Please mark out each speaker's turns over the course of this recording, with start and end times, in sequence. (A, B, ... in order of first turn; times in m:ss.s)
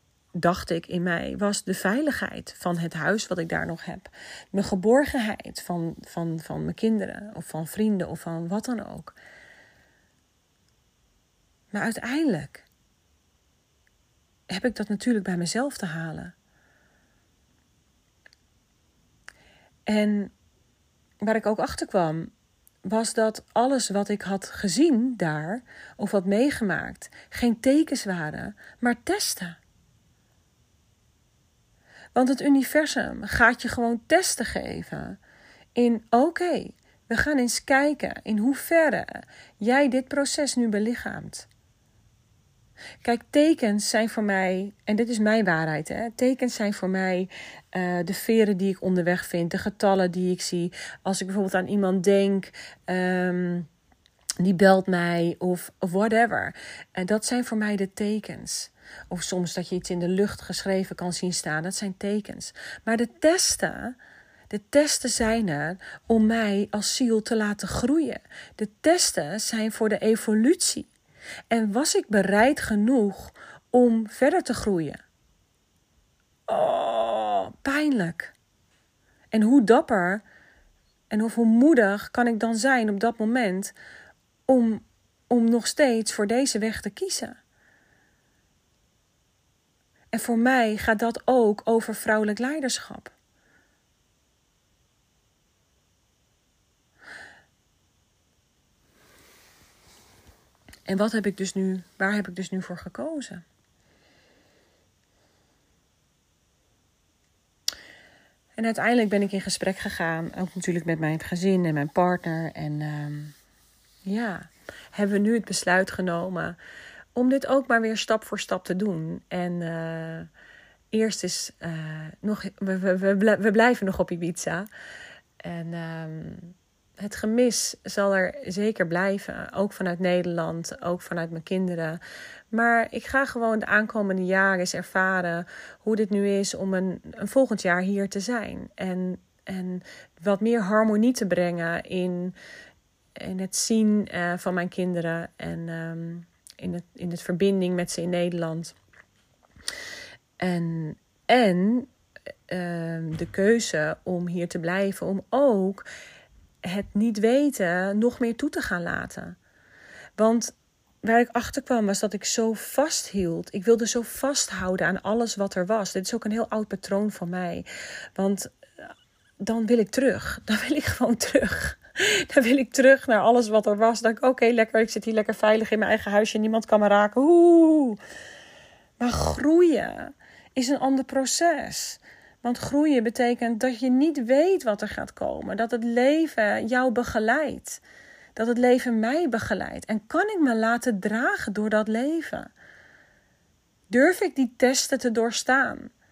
0:00.4-0:09.2 A
0:11.7-0:12.6 A
0:14.5-0:16.3 A
0:19.9-0:20.3 A
0:21.2-0:22.3 A
0:22.8-0:29.6 A
0:32.1-0:35.2 A
0:35.7-0:41.5 A
0:43.0-0:53.7 A
0:54.4-1:04.0 A
1:04.5-1:10.9 A
1:11.5-1:15.0 A
1:16.5-1:18.3 A
1:19.3-1:20.2 A
1:21.1-1:23.7 A
1:24.5-1:27.4 A
1:30.1-1:33.1 A
1:40.9-1:43.4 A
1:48.6-1:53.3 A
1:54.0-1:56.6 A
1:57.1-2:00.3 A
2:00.9-2:04.7 A
2:05.4-2:22.4 A
2:23.2-2:28.8 A
2:30.4-2:31.9 A
2:32.5-2:35.8 A
2:36.6-2:39.4 A
2:40.2-2:58.0 A
2:59.0-3:07.8 A
3:08.4-3:12.5 A
3:13.9-3:15.9 A